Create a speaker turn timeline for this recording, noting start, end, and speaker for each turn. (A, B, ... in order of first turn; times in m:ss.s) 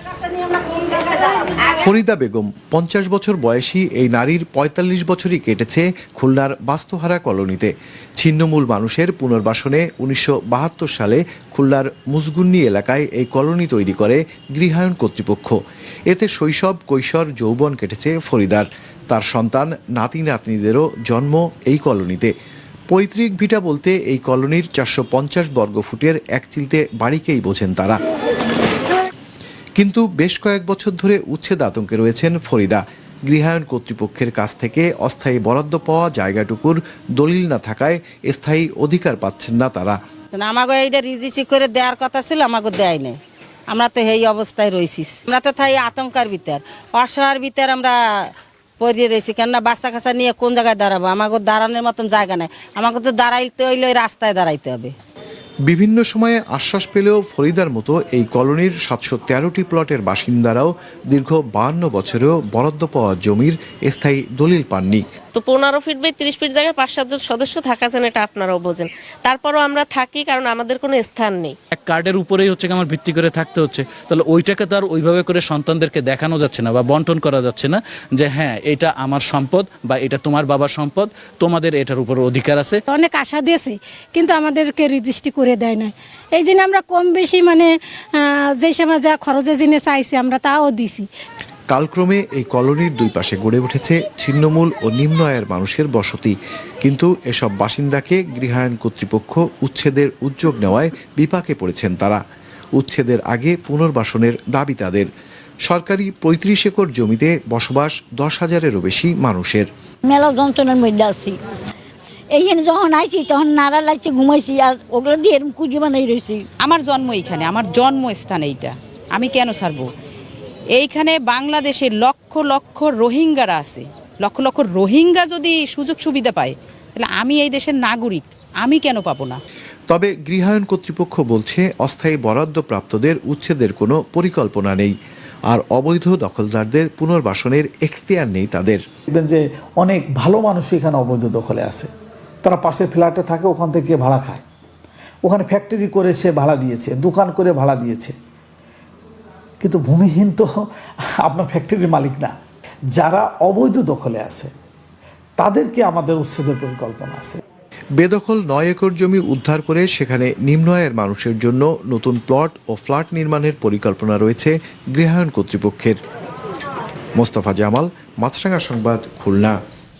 0:01.8-0:15.6 A
0:16.1-0:22.3 A
0:22.9-0:28.0 A
0:29.8-0:39.9 A
0:40.3-0:43.2 B
0:43.7-0:48.2 B
0:48.8-0:54.9 B
0:55.7-1:05.0 A
1:05.3-1:11.5 C
1:11.7-1:22.8 D
1:22.9-1:27.7 E
1:28.2-1:31.0 E
1:31.7-1:42.2 A
1:42.8-1:45.1 A
1:45.7-1:49.6 A
1:50.0-1:51.4 F
1:52.3-1:56.5 F
1:56.6-1:59.9 G
2:00.8-2:09.4 G
2:09.9-2:14.9 A
2:15.5-2:18.8 A
2:19.1-2:21.9 H
2:22.4-2:24.4 H
2:25.2-2:28.1 H
2:29.6-2:30.6 H
2:31.2-2:32.3 H
2:33.0-2:34.5 H
2:35.4-2:37.4 H
2:38.0-2:46.0 A
2:47.2-2:49.6 A